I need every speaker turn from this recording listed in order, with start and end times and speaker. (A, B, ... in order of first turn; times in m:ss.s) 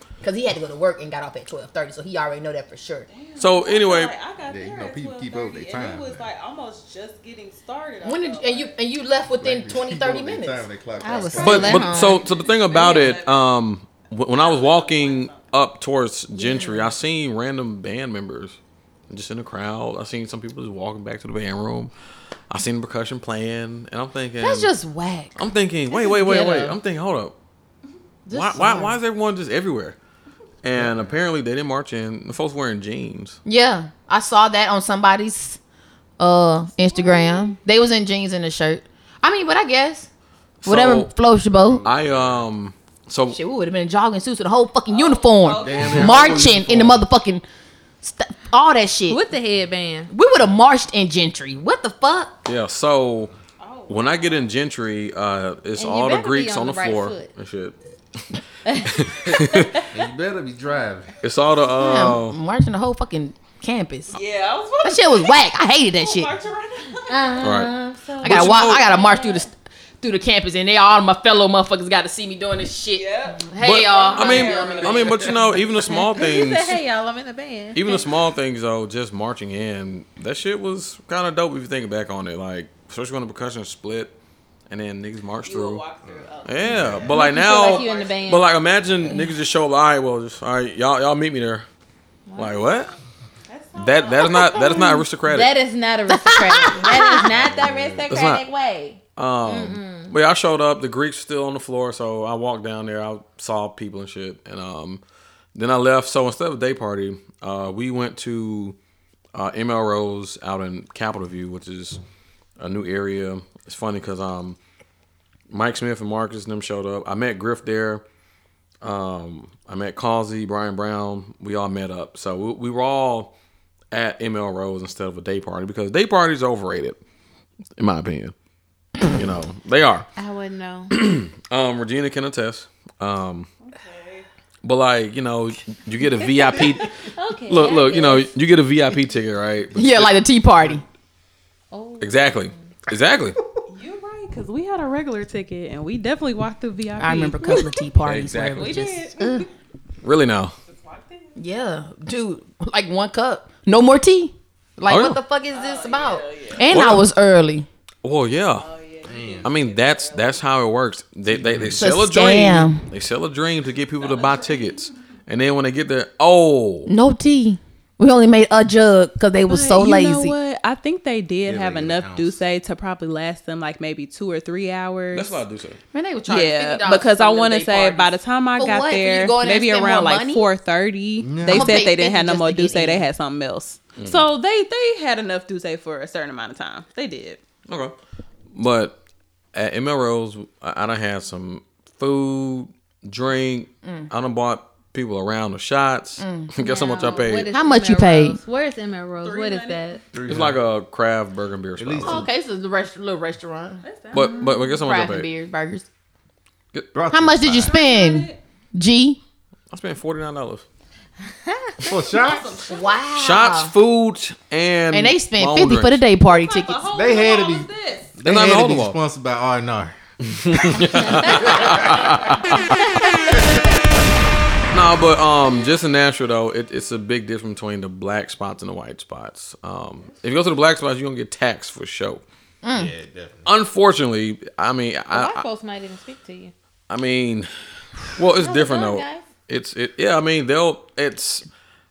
0:00.2-0:03.1 A
0:03.1-0:08.7 B
0:03.4-0:04.1 C
0:04.5-0:06.3 D
0:08.0-0:10.7 A
0:09.4-0:12.0 D
0:11.0-0:12.2 E
0:11.3-0:12.1 A
0:11.4-0:18.6 C
0:12.7-0:13.4 B
0:14.2-0:15.4 B
0:16.3-0:16.9 A
0:19.1-0:21.9 C
0:22.5-0:24.7 C
0:24.4-0:26.8 A
0:25.4-0:27.4 C
0:28.3-0:29.0 A
0:28.3-0:30.0 C
0:30.6-0:33.4 C
0:30.7-0:31.1 D
0:33.4-0:35.6 A
0:36.2-0:40.1 A
0:36.9-0:37.5 B
0:40.6-0:41.1 C
0:40.6-0:41.8 A
0:41.6-0:42.4 D
0:41.9-0:43.4 C
0:43.3-0:47.4 A
0:44.9-0:46.6 B
0:45.6-0:47.0 D
0:48.0-0:49.2 A
0:49.1-0:50.1 E
0:50.1-0:52.4 A
0:52.4-0:53.3 C
0:53.6-0:54.5 B
0:53.9-0:59.8 C
0:55.8-0:57.3 E
0:58.7-0:59.8 E
0:59.9-1:01.1 D
1:01.2-1:02.4 C
1:01.6-1:04.2 A
1:04.1-1:07.5 B
1:04.8-1:06.3 A
1:07.1-1:09.4 E
1:07.4-1:08.9 C
1:08.2-1:15.4 A
1:13.0-1:15.5 B
1:13.6-1:16.8 C
1:15.8-1:18.0 E
1:17.7-1:24.1 C
1:24.7-1:25.8 C
1:25.5-1:28.4 B
1:26.0-1:27.1 D
1:26.5-1:31.6 C
1:27.2-1:28.4 E
1:32.3-1:32.7 E
1:32.4-1:32.9 C
1:33.5-1:34.6 B
1:33.8-1:35.5 C
1:34.6-1:40.1 E
1:36.3-1:37.3 A
1:37.3-1:38.1 D
1:38.1-1:38.4 C
1:39.2-1:45.0 C
1:45.6-1:48.8 C
1:49.3-1:52.0 C
1:52.6-1:54.6 C
1:55.5-1:58.0 C
1:58.8-2:03.3 C
2:03.9-2:07.0 C
2:07.8-2:08.3 C
2:09.0-2:10.1 C
2:10.2-2:10.9 E
2:10.9-2:13.5 C
2:13.6-2:14.3 B
2:14.6-2:16.9 C
2:17.0-2:18.3 E
2:17.5-2:20.8 C
2:19.8-2:20.8 A
2:21.7-2:22.7 E
2:22.0-2:23.4 C
2:23.7-2:27.7 B
2:27.0-2:29.5 A
2:28.0-2:28.8 C
2:28.6-2:29.5 B
2:30.0-2:30.5 C
2:30.6-2:31.4 B
2:31.4-2:37.7 A
2:34.9-2:35.2 C
2:35.5-2:36.7 B
2:36.6-2:37.1 C
2:38.0-2:38.7 C
2:38.6-2:40.4 B
2:39.1-2:39.5 D
2:39.4-2:46.9 C
2:41.3-2:41.9 D
2:41.8-2:42.9 A
2:44.0-2:44.9 B
2:46.9-2:50.4 A
2:49.5-2:55.4 B
2:51.5-2:52.4 D
2:55.1-2:55.8 C
2:55.9-3:00.5 A
2:56.3-3:07.4 B
3:01.2-3:01.7 D
3:01.4-3:03.1 A
3:04.0-3:04.2 C
3:07.7-3:07.9 C
3:08.5-3:09.0 C
3:09.5-3:17.5 C
3:16.2-3:16.6 A
3:16.6-3:20.0 E
3:17.5-3:18.4 A
3:19.2-3:19.8 B
3:20.1-3:20.6 D
3:20.3-3:22.3 C
3:21.8-3:22.3 D
3:22.0-3:24.3 A
3:23.8-3:24.8 B
3:24.1-3:25.3 C
3:24.8-3:25.9 A
3:26.7-3:27.2 C
3:26.9-3:27.7 D
3:27.1-3:29.2 A
3:27.6-3:28.4 B
3:29.7-3:30.6 C
3:31.5-3:31.9 E
3:31.9-3:32.7 D
3:32.1-3:32.8 B
3:32.6-3:33.7 A
3:33.2-3:36.0 C
3:34.9-3:36.8 A
3:36.2-3:38.2 B
3:36.9-3:40.0 D
3:38.2-3:39.0 C
3:40.3-3:43.0 C
3:40.5-3:42.4 D
3:43.3-3:44.1 D
3:44.7-3:52.2 C
3:52.6-3:52.9 A
3:52.8-3:53.5 D
3:53.5-3:55.4 C
3:55.1-3:56.5 E
3:56.9-3:57.5 C
3:58.0-4:01.4 C
3:58.4-3:59.2 E